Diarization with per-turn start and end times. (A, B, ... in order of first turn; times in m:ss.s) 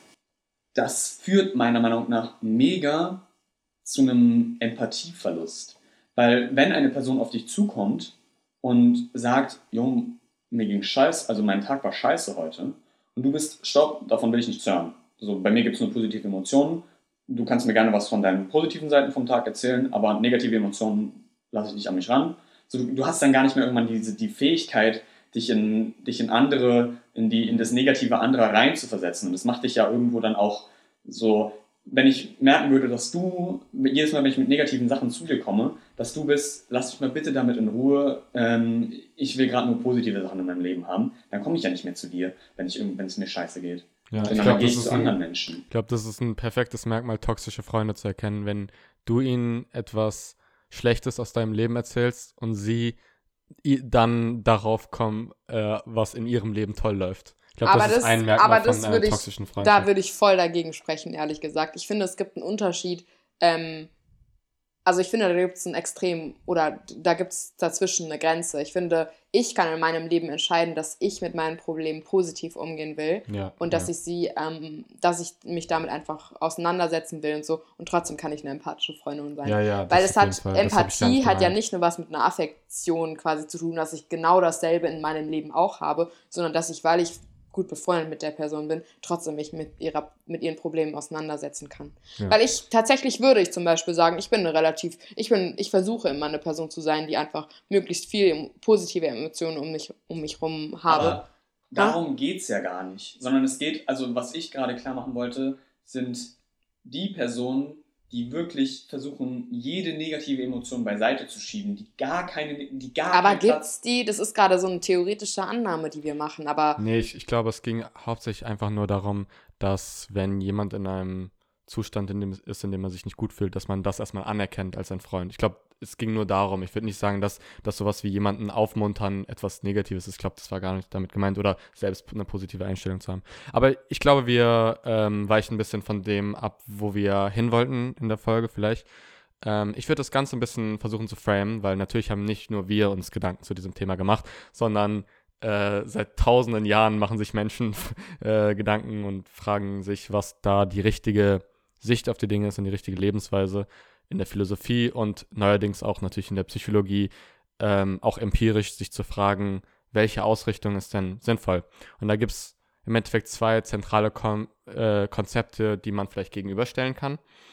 0:00.7-0:03.2 A
0:03.8-0:45.6 A
0:27.4-0:27.7 B
0:44.1-0:53.0 B
0:53.6-0:59.9 B
0:57.6-1:03.9 C
1:04.8-1:41.2 C
1:13.3-1:13.9 B
1:19.4-1:21.5 B
1:40.9-1:53.6 A
1:53.1-1:56.8 C
1:56.8-2:18.9 B
2:19.4-2:47.2 B